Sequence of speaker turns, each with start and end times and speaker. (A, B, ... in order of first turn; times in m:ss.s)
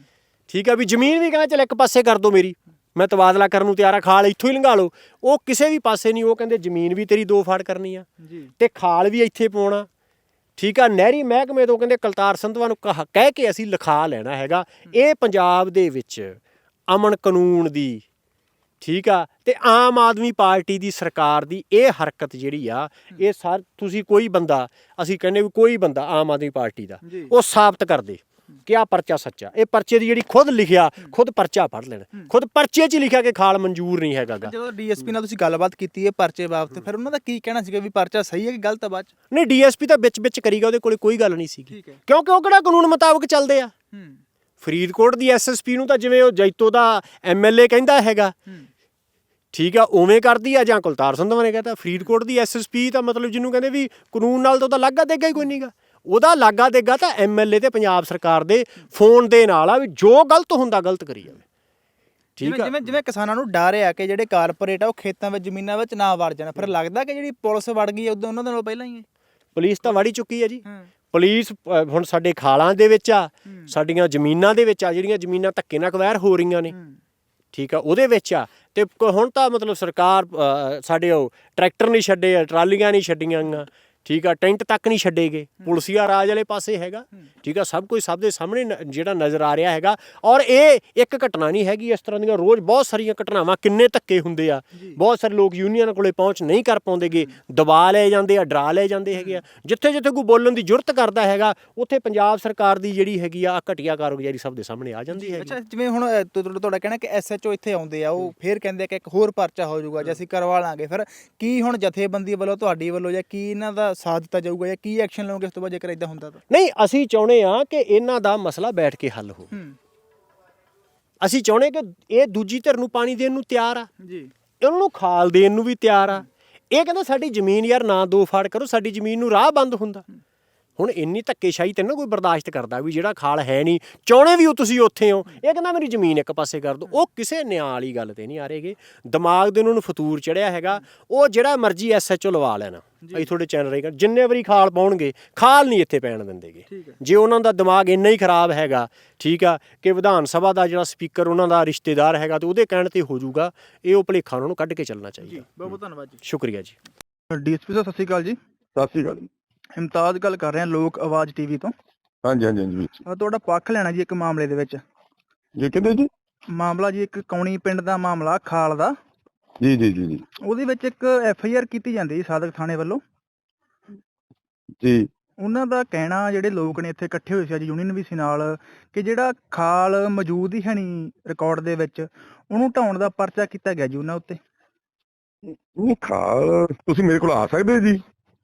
0:00.5-0:08.1 A
0:08.2-0:08.5 B
0:08.6-0:09.9 A
0:10.6-0:18.0 A
0:18.8-0:34.5 A
0:27.0-0:27.3 B
0:34.4-0:39.1 B
0:39.3-0:43.7 A
0:41.7-0:42.0 B
0:43.9-0:44.2 B
0:44.6-0:48.4 A
0:49.5-1:01.4 A
1:02.4-1:02.7 A
1:02.4-1:09.0 B
1:09.6-1:16.8 A
1:13.5-1:13.7 B
1:16.7-1:17.0 B
1:17.5-1:45.6 A
1:45.1-1:56.4 B
1:56.5-1:59.5 A
1:59.5-1:59.8 B
2:01.2-2:03.9 A
2:04.0-2:04.3 B
2:04.6-2:10.1 A
2:10.8-2:36.8 A
2:23.0-2:23.3 B
2:26.7-2:27.0 B
2:35.2-2:36.2 B
2:37.3-2:38.4 B
2:38.8-2:39.3 C
2:39.8-2:41.7 B
2:42.2-2:43.0 C
2:43.0-2:44.8 B
2:45.6-2:46.1 C
2:46.5-2:49.0 B
2:49.6-2:50.2 C
2:50.4-2:53.0 B
2:54.8-2:55.1 C
2:55.4-3:04.4 B
3:05.8-3:08.0 C